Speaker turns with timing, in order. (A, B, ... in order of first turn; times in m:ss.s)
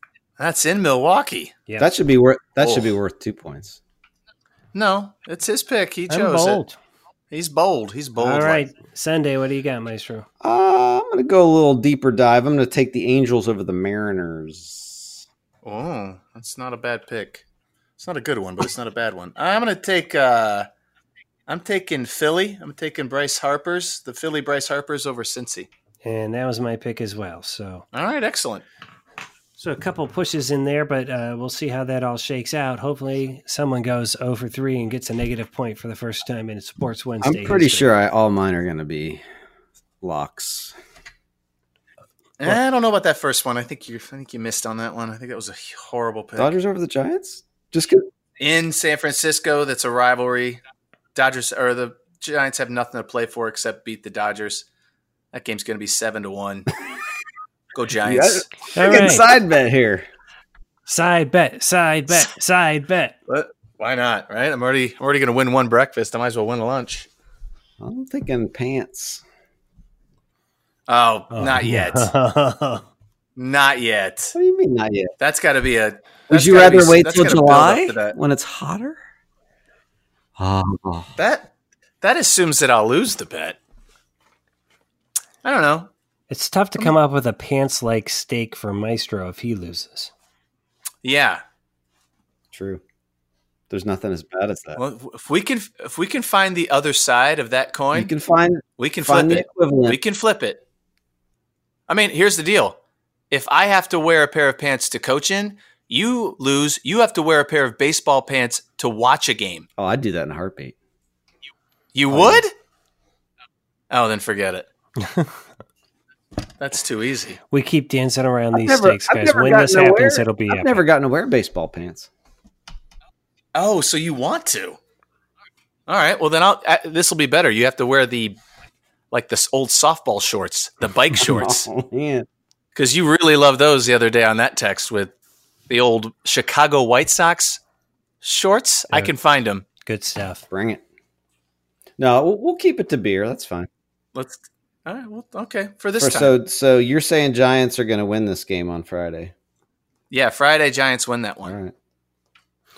0:00.4-0:01.6 A
0:01.8-0:03.8 B
0:02.6-0:02.9 A
0:04.7-0:06.6 A
0:06.1-0:06.8 C
0:07.3-0:08.6 A
0:08.2-0:10.3 C
0:10.4-0:15.2 B
0:15.6-0:17.4 A
0:18.0-0:20.7 A
0:21.5-0:25.7 A
0:26.0-0:27.9 C
0:27.9-0:28.6 A
0:29.6-0:37.9 C
0:37.2-0:39.2 B
0:40.0-0:40.8 B
0:42.4-0:46.6 A
0:46.4-0:48.1 B
0:48.4-0:50.6 A
0:51.2-0:54.7 A
0:55.3-0:56.7 A
0:57.7-0:59.0 A
0:58.0-1:00.1 B
0:58.7-0:59.2 C
1:00.9-1:03.2 C
1:03.3-1:07.1 A
1:07.8-1:09.2 B
1:10.9-1:12.1 A
1:11.3-1:12.9 C
1:13.4-1:14.4 A
1:14.4-1:15.1 B
1:15.2-1:18.2 A
1:16.3-1:19.0 B
1:20.4-1:21.1 B
1:21.2-1:21.5 A
1:22.0-1:23.6 A
1:25.4-1:25.9 A
1:26.3-1:30.1 C
1:31.0-1:31.4 A
1:32.5-1:32.8 B
1:33.7-1:34.8 B
1:34.8-1:38.1 A
1:37.9-1:40.0 B
1:38.8-1:40.6 A
1:41.9-1:42.8 A
1:43.3-1:49.7 A
1:49.8-1:50.8 B
1:51.9-1:52.5 A
1:52.1-1:52.4 B
1:53.9-1:54.7 A
1:55.0-1:55.3 C
1:56.6-1:57.4 A
1:57.5-2:00.8 C
1:58.5-2:02.1 B
2:03.6-2:04.8 A
2:05.9-2:08.4 A
2:09.1-2:11.7 A
2:11.2-2:12.3 B
2:12.8-2:15.1 A
2:15.7-2:17.6 A
2:18.2-2:19.6 A
2:19.8-2:20.4 C
2:20.5-2:20.8 B
2:22.0-2:23.7 B
2:24.2-2:26.3 A
2:26.0-2:29.3 B
2:30.1-2:31.6 A
2:31.4-2:31.7 B